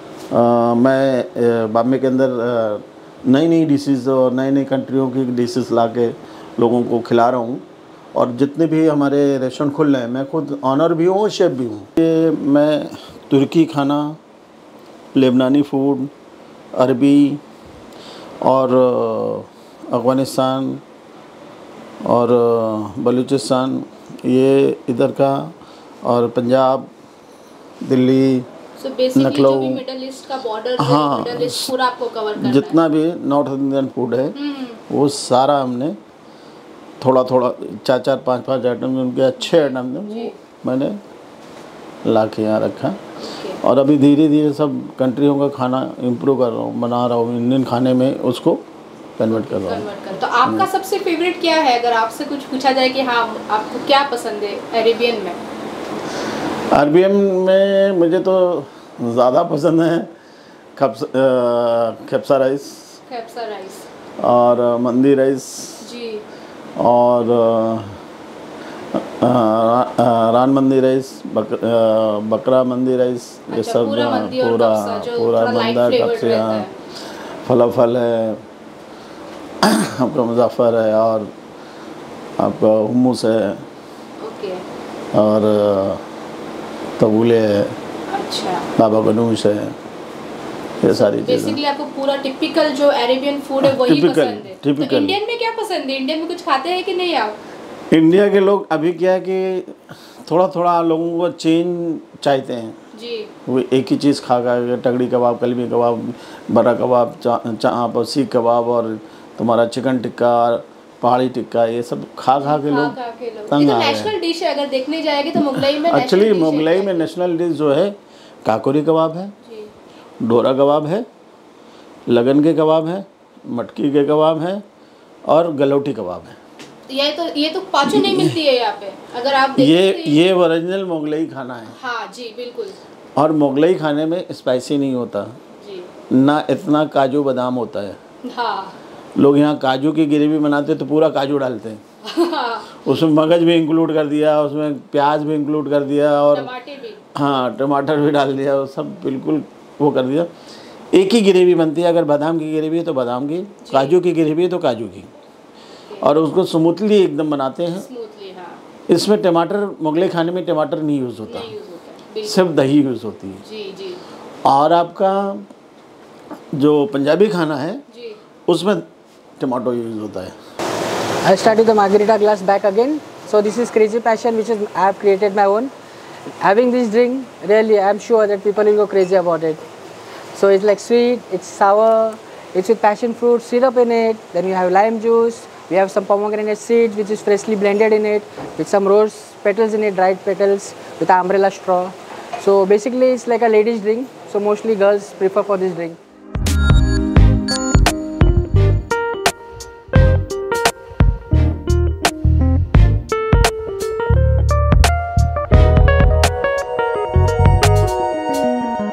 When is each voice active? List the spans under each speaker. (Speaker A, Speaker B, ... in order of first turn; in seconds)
Speaker A: 0.3-14.2, 15.1-16.1, 16.8-17.4, 18.4-20.8, 22.1-26.9, 27.8-28.5, 29.1-29.8, 30.8-31.7, 32.4-34.4, 34.9-36.0, 37.0-41.0, 42.0-43.0, 43.6-48.6, 49.2-49.9, 56.7-60.1, 60.8-62.9, 64.2-65.9, 66.8-68.0, 68.9-76.7, 77.4-78.4, 79.6-81.3, 82.4-83.7, 85.1-86.0, 87.0-87.8, 88.8-89.8, 90.8-91.6, 93.6-95.2, 97.9-102.8, 103.5-113.0, 113.5-114.1, 115.5-119.3, 120.2-121.1, 122.1-124.6, 125.3-126.4, 128.0-128.2, 129.6-131.7, 133.2-135.4, 136.1-138.0, 139.2-141.8, 142.8-146.5, 147.2-150.3, 150.9-155.1, 156.0-157.9, 158.9-161.5, 162.2-163.4, 164.4-165.5, 166.5-167.8, 168.5-168.8, 169.4-170.3
Speaker B: 28.8-32.8, 34.4-34.8, 39.4-40.3, 43.2-43.6, 49.3-55.4, 63.1-63.9, 65.8-66.2, 73.5-76.7, 84.2-84.6, 88.1-88.7, 90.8-97.4, 103.0-103.3, 112.4-117.0, 126.9-130.2, 131.8-132.8, 135.6-135.9, 138.2-138.8, 142.0-142.7, 146.3-147.0, 153.6-154.0, 157.7-158.6, 161.2-162.4, 163.4-164.0, 167.9-168.2
Speaker C: 171.2-175.7, 176.4-179.6, 180.3-196.0